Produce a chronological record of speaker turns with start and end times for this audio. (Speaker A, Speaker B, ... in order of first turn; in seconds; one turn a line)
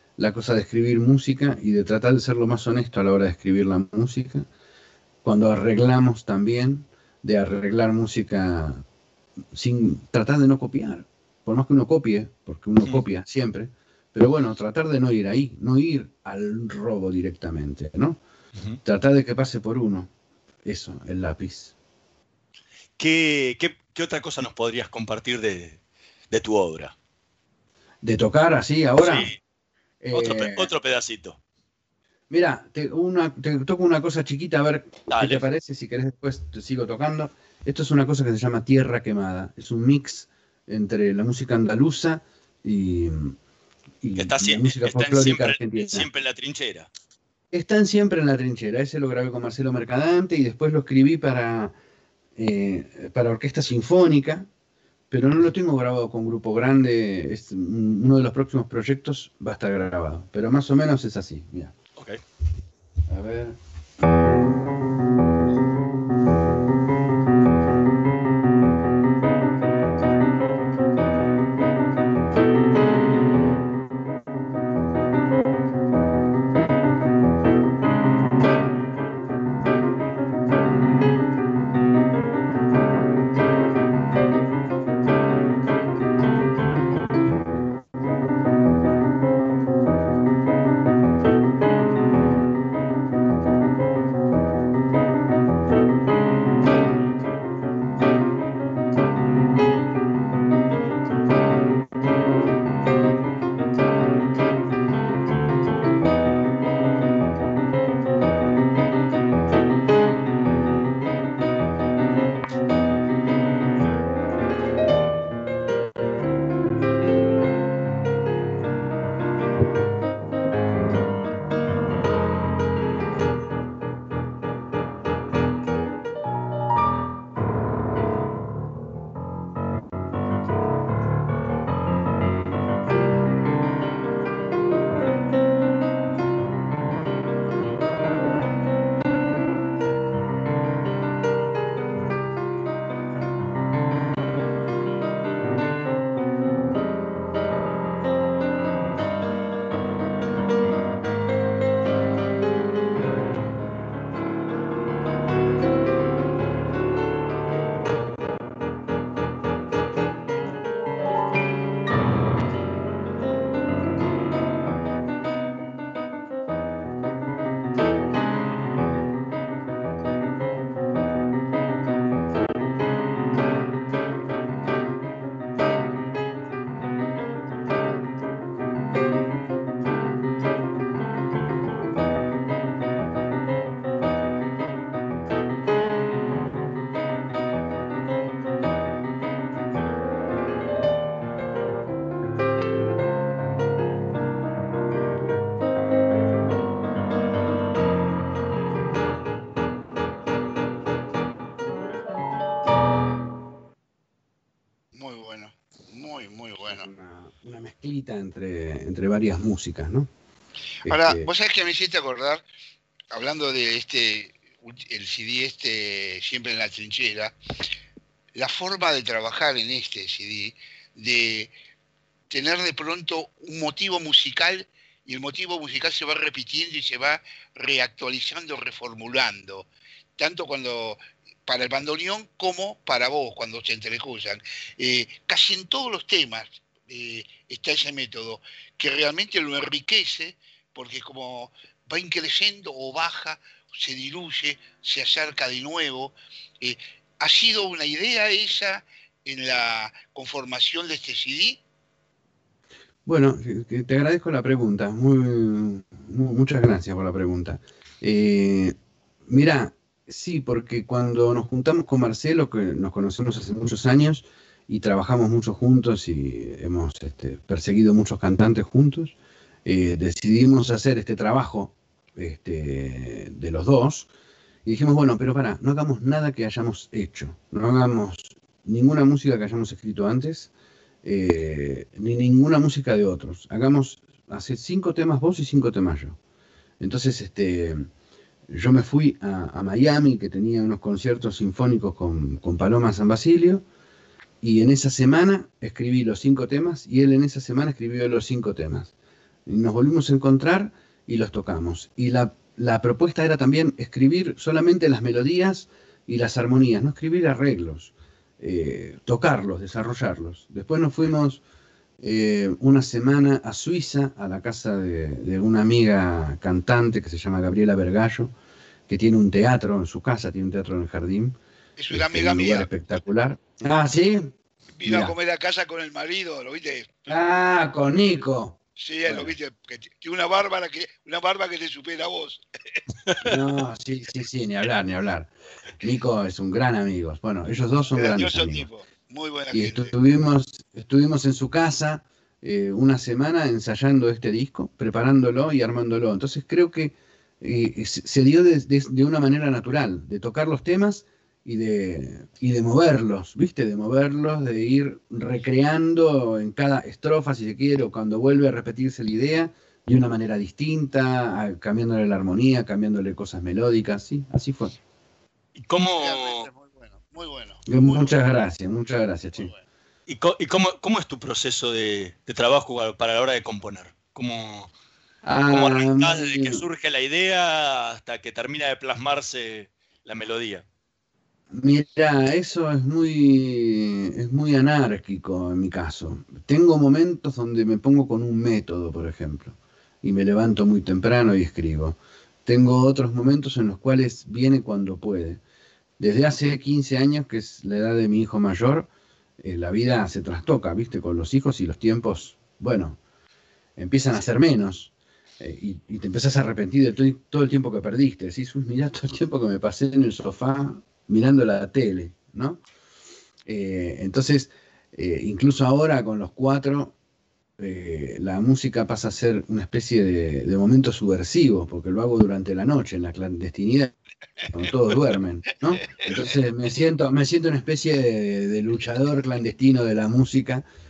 Speaker A: 0.2-4.5
Speaker A: 5.2-8.8
Speaker A: 9.5-18.2
Speaker A: 18.8-20.1
Speaker A: 20.6-21.8
Speaker B: 23.0-25.8
Speaker B: 26.3-26.9
Speaker A: 28.0-29.3
Speaker B: 29.0-29.4
Speaker A: 30.0-30.7
Speaker B: 30.1-31.4
Speaker A: 32.3-43.4
Speaker B: 35.1-35.5
Speaker A: 44.0-46.1
Speaker B: 44.2-46.9
Speaker A: 47.5-51.8
Speaker A: 52.4-54.5
Speaker A: 55.1-61.8
Speaker A: 63.1-63.6
Speaker C: 204.9-206.9
Speaker A: 206.7-210.1
Speaker A: 210.8-211.3
Speaker C: 210.9-212.4
Speaker C: 213.1-217.4
Speaker C: 218.3-221.5
Speaker C: 222.3-251.6
Speaker A: 253.1-258.8
Speaker A: 259.3-274.1
Speaker A: 274.6-280.5
Speaker A: 281.0-286.2
Speaker A: 286.8-287.9
Speaker A: 288.5-293.6
Speaker A: 294.4-298.9
Speaker A: 299.5-311.4
Speaker A: 312.0-318.3
Speaker A: 318.9-321.4
Speaker C: 321.8-322.7
Speaker A: 321.9-325.2
Speaker C: 324.8-327.1
Speaker A: 327.1-329.4
Speaker C: 328.8-332.4
Speaker A: 333.2-338.7
Speaker C: 337.9-339.9
Speaker A: 339.5-364.8
Speaker B: 365.6-366.5
Speaker C: 366.0-368.1
Speaker A: 367.7-369.5
Speaker B: 370.1-374.7
Speaker A: 375.2-376.6
Speaker B: 375.5-380.6
Speaker A: 381.5-395.4
Speaker A: 396.0-403.0
Speaker A: 403.8-412.6
Speaker A: 413.5-416.9
Speaker A: 417.6-430.6